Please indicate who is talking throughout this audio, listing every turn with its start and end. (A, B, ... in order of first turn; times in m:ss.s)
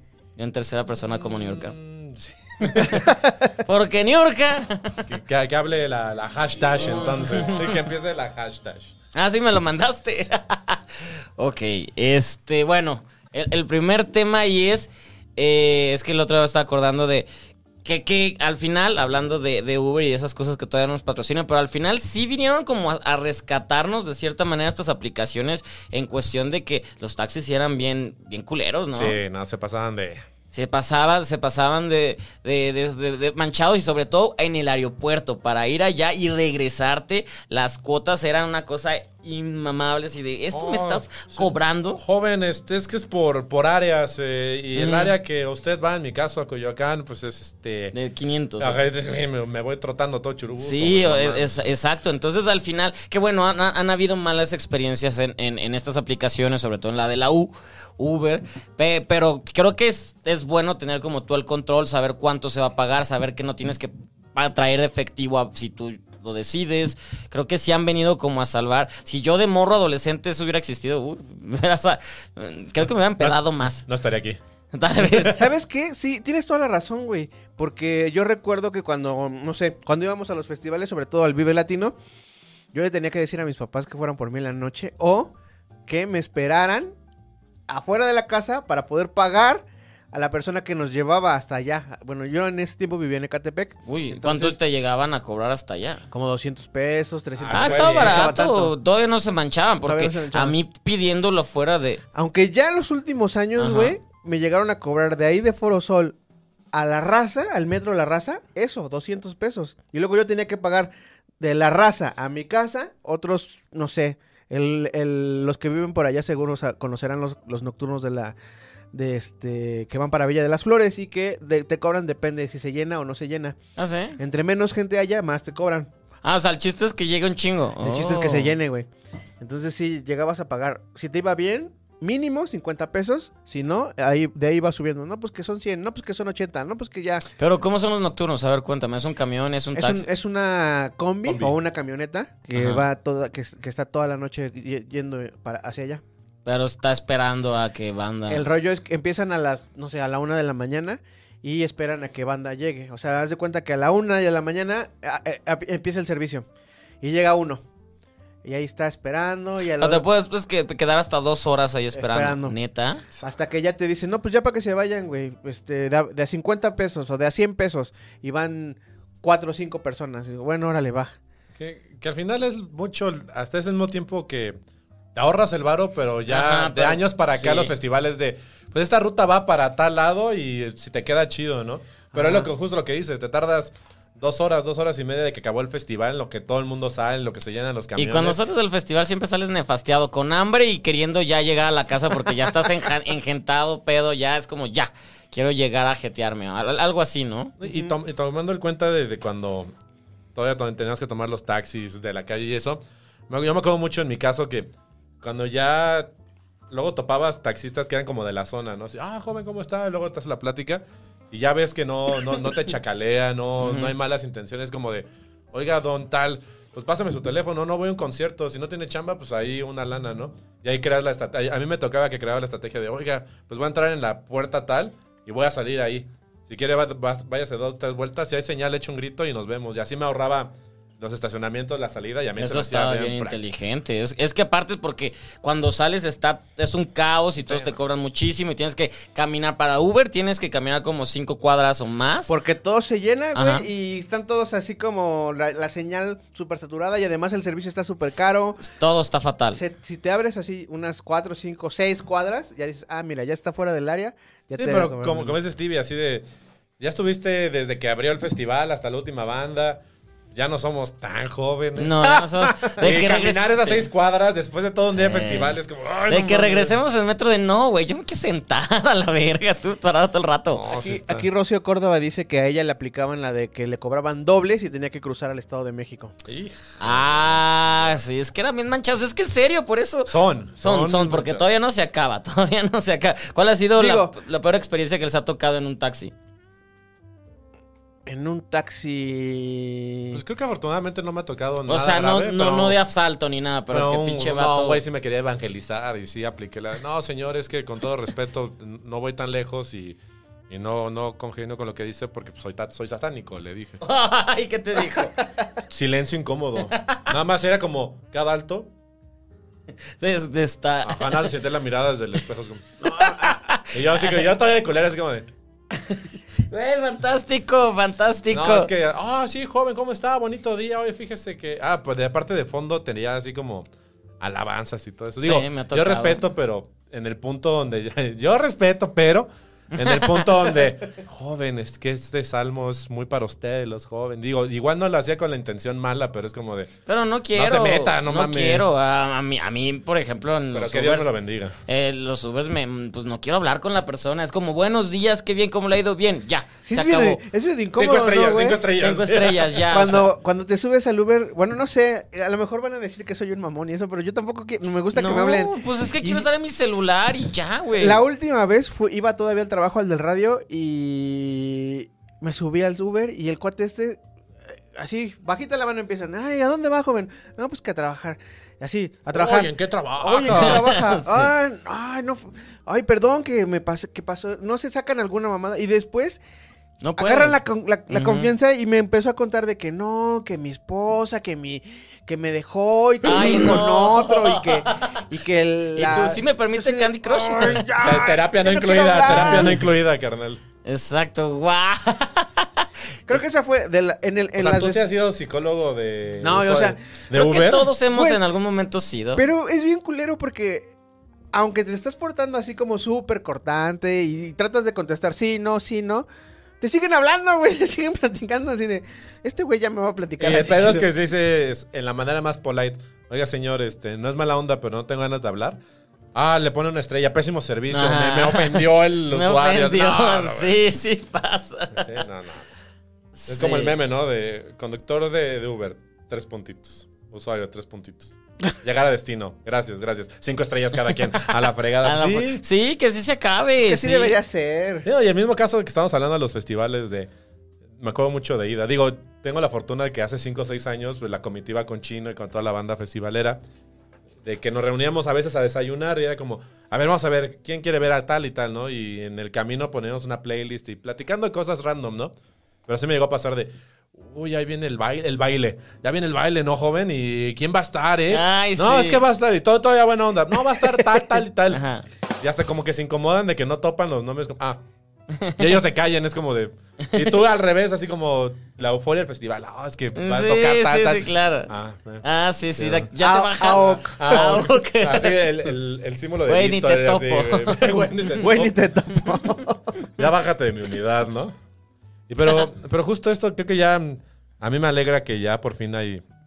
0:00.4-0:01.8 A
0:01.1-0:03.2 B
0:02.7-0:03.3 C
0:03.6-0:05.1 A
0:05.1-0:08.9 B
0:09.1-0:17.3 A
0:17.8-0:29.2 A
0:28.9-0:30.2 B
0:30.5-0:42.0 A
0:40.5-0:47.9 B
0:44.7-0:45.1 A
0:47.9-0:48.8 A
0:48.6-0:51.7 B
0:50.6-1:13.9 A
1:13.2-1:14.4 B
1:14.7-1:15.4 A
1:15.2-1:21.9 C
1:22.7-1:25.3 C
1:25.9-1:26.9 C
1:27.7-1:34.6 C
1:33.8-1:36.1 A
1:36.1-1:38.7 C
1:37.3-1:38.4 B
1:37.5-1:42.0 A
1:39.8-1:40.6 C
1:42.1-1:46.2 C
1:43.6-1:44.0 A
1:46.7-1:58.3 C
1:58.9-2:03.6 C
2:03.8-2:04.2 A
2:04.2-2:05.9 C
2:06.2-2:08.5 A
2:07.8-2:08.9 C
2:09.4-2:17.2 C
2:17.4-2:20.1 A
2:19.7-2:26.0 C
2:21.2-2:21.6 B
2:22.5-2:22.8 A
2:26.4-2:28.4 A
2:28.3-2:36.5 C
2:37.0-2:37.6 C
2:38.4-2:40.0 C
2:39.8-2:43.0 A
2:41.9-2:42.6 C
2:43.2-2:51.1 C
2:51.6-2:54.6 B
2:55.1-3:08.4 B
2:56.3-2:57.7 A
3:02.1-3:02.5 C
3:08.0-3:17.5 A
3:17.6-3:19.7 B
3:17.6-3:17.9 C
3:20.3-3:26.1 B
3:26.7-3:53.4 B
3:33.6-3:33.9 A
3:52.4-4:02.3 A
3:57.4-3:57.8 B
4:02.3-4:08.6 C
4:03.3-4:03.6 A
4:08.6-4:09.6 A
4:09.5-4:15.4 C
4:14.6-4:16.2 B
4:16.8-4:26.8 B
4:21.8-4:23.9 A
4:24.9-4:30.6 A
4:30.5-4:31.3 B
4:30.7-4:36.1 C
4:36.2-4:38.0 B
4:36.8-4:46.1 A
4:40.1-4:41.4 B
4:43.8-4:44.1 C
4:48.0-4:50.2 C
4:50.1-4:52.8 B
4:51.7-4:54.8 A
4:53.7-5:03.8 B
5:03.8-5:05.1 A
5:05.7-5:08.7 B
5:06.8-5:07.0 A
5:10.0-5:11.3 A
5:10.8-5:15.3 B
5:12.8-5:14.2 A
5:15.7-5:18.7 A
5:18.3-5:23.7 B
5:24.2-5:36.7 B
5:25.2-5:26.2 A
5:29.7-5:30.6 A
5:36.9-5:41.1 A
5:37.3-5:38.6 B
5:40.5-5:41.6 B
5:41.6-5:47.2 A
5:46.6-5:48.6 C
5:47.7-5:50.0 B
5:48.8-5:50.0 A
5:49.7-5:56.3 C
5:54.9-5:58.0 A
5:57.8-6:04.0 C
6:04.6-6:16.2 C
6:09.1-6:10.8 B
6:10.2-6:11.3 A
6:16.8-6:18.3 A
6:17.0-6:29.6 C
6:23.0-6:25.0 A
6:25.7-6:27.7 A
6:27.5-6:30.4 B
6:29.1-6:29.6 A
6:30.6-6:32.5 A
6:33.1-6:34.8 C
6:34.4-6:37.7 B
6:36.2-6:36.8 C
6:37.1-6:39.2 A
6:37.8-6:38.2 C
6:39.2-6:40.7 C
6:41.3-6:46.1 C
6:46.6-6:50.9 C
6:50.2-6:55.6 B
6:56.1-7:00.6 B
6:57.7-7:02.0 A
7:01.7-7:02.5 B
7:03.1-7:03.8 A
7:03.3-7:12.4 B
7:11.8-7:14.2 A
7:13.6-7:14.9 C
7:14.8-7:17.1 B
7:17.8-7:23.4 B
7:24.2-7:32.1 B
7:32.6-7:41.6 B
7:38.1-7:39.0 A
7:41.5-7:41.8 A
7:42.2-7:44.6 B
7:45.1-7:45.5 A
7:45.4-7:52.0 B
7:49.9-7:51.5 A
7:52.0-7:55.2 A
7:52.6-7:52.9 B
7:53.0-7:54.4 C
7:53.4-7:58.6 B
7:56.3-7:58.2 A
7:58.2-7:59.8 C
7:59.9-8:01.4 B
8:02.1-8:06.0 B